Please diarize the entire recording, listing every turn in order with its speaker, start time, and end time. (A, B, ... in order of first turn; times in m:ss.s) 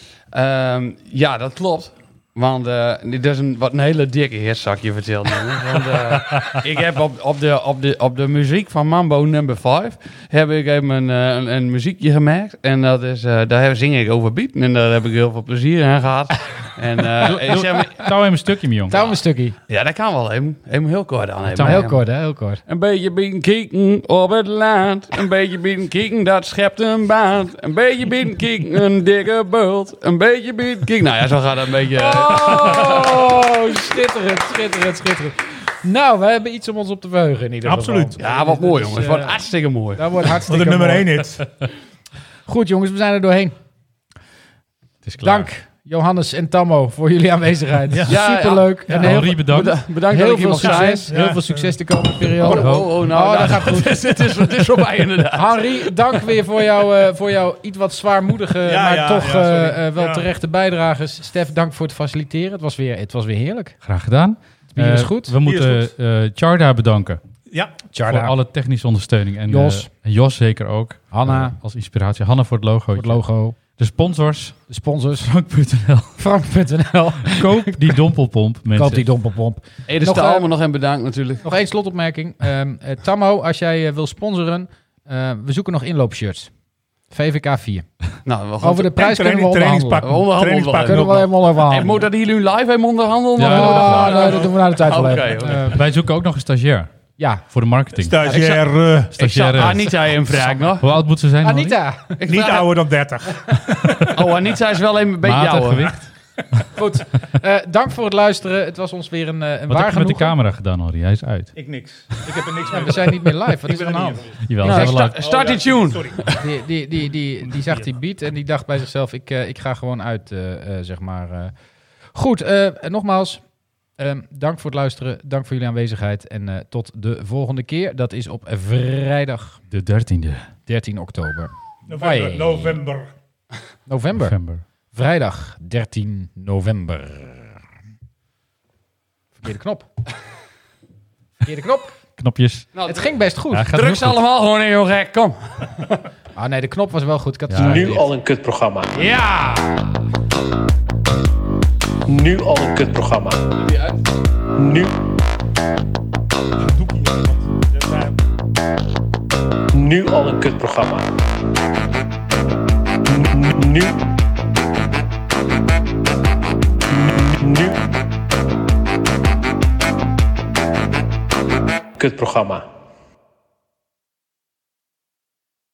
0:00.3-0:18.1 A
0:17.2-0:19.1 B
0:18.9-0:19.6 C
0:18.9-0:22.1 A
0:21.5-0:22.6 C
0:22.6-0:33.2 A
0:31.9-0:41.3 C
0:37.6-0:38.4 D
0:38.2-0:40.1 A
0:40.5-0:41.4 D
0:42.4-0:43.5 C
0:45.0-0:45.5 B
0:45.2-0:49.4 C
0:47.9-0:48.2 D
0:48.1-0:51.1 A
0:48.9-0:49.2 D
0:49.0-0:49.8 B
0:50.1-0:54.0 C
0:50.6-0:51.8 D
0:52.4-0:55.7 A
0:52.4-0:53.7 B
0:55.3-1:03.8 C
0:58.6-1:00.3 D
1:03.8-1:07.2 B
1:04.8-1:05.3 C
1:05.4-1:05.9 D
1:07.9-1:08.4 C
1:08.0-1:14.6 B
1:09.5-1:09.9 C
1:11.1-1:11.6 C
1:12.9-1:13.6 C
1:14.7-1:15.3 C
1:15.2-1:16.2 B
1:16.2-1:17.9 C
1:17.2-1:19.1 B
1:18.7-1:20.5 C
1:19.9-1:21.4 A
1:21.4-1:26.5 C
1:27.1-1:27.9 C
1:28.2-1:28.9 A
1:28.6-1:30.1 C
1:28.9-1:31.4 D
1:30.0-1:35.7 A
1:30.8-1:32.0 C
1:33.4-1:34.2 B
1:33.4-1:35.8 C
1:35.7-1:36.9 B
1:37.2-1:37.4 C
1:37.4-1:38.2 B
1:38.0-1:39.2 D
1:38.2-1:38.5 C
1:39.2-1:40.8 A
1:39.2-1:41.8 B
1:40.3-1:40.7 C
1:41.4-1:42.6 C
1:42.2-1:42.6 A
1:42.2-1:44.1 D
1:44.1-1:45.9 A
1:45.2-1:46.1 B
1:46.7-1:50.3 C
1:49.7-1:52.2 B
1:51.5-1:56.3 D
1:52.7-1:54.2 C
1:54.4-1:55.2 B
1:54.6-1:56.2 A
1:56.3-2:01.5 C
1:57.5-1:57.9 D
2:02.1-2:03.4 C
2:04.0-2:09.6 C
2:09.7-2:10.5 B
2:10.7-2:12.8 C
2:11.9-2:13.1 D
2:13.9-2:14.4 C
2:14.2-2:14.6 B
2:14.9-2:17.6 C
2:19.4-2:19.9 C
2:21.4-2:22.0 C
2:22.2-2:22.7 B
2:22.7-2:23.1 A
2:22.8-2:23.7 C
2:23.5-2:24.2 B
2:23.7-2:25.9 A
2:26.4-2:28.1 C
2:27.5-2:27.9 B
2:27.6-2:29.1 E
2:28.9-2:30.0 C
2:32.1-2:33.4 E
2:33.6-2:34.0 A
2:34.5-2:34.9 E
2:36.6-2:38.1 D
2:39.7-2:41.0 E
2:43.1-2:44.0 E
2:47.0-2:47.8 E
2:52.0-2:52.6 E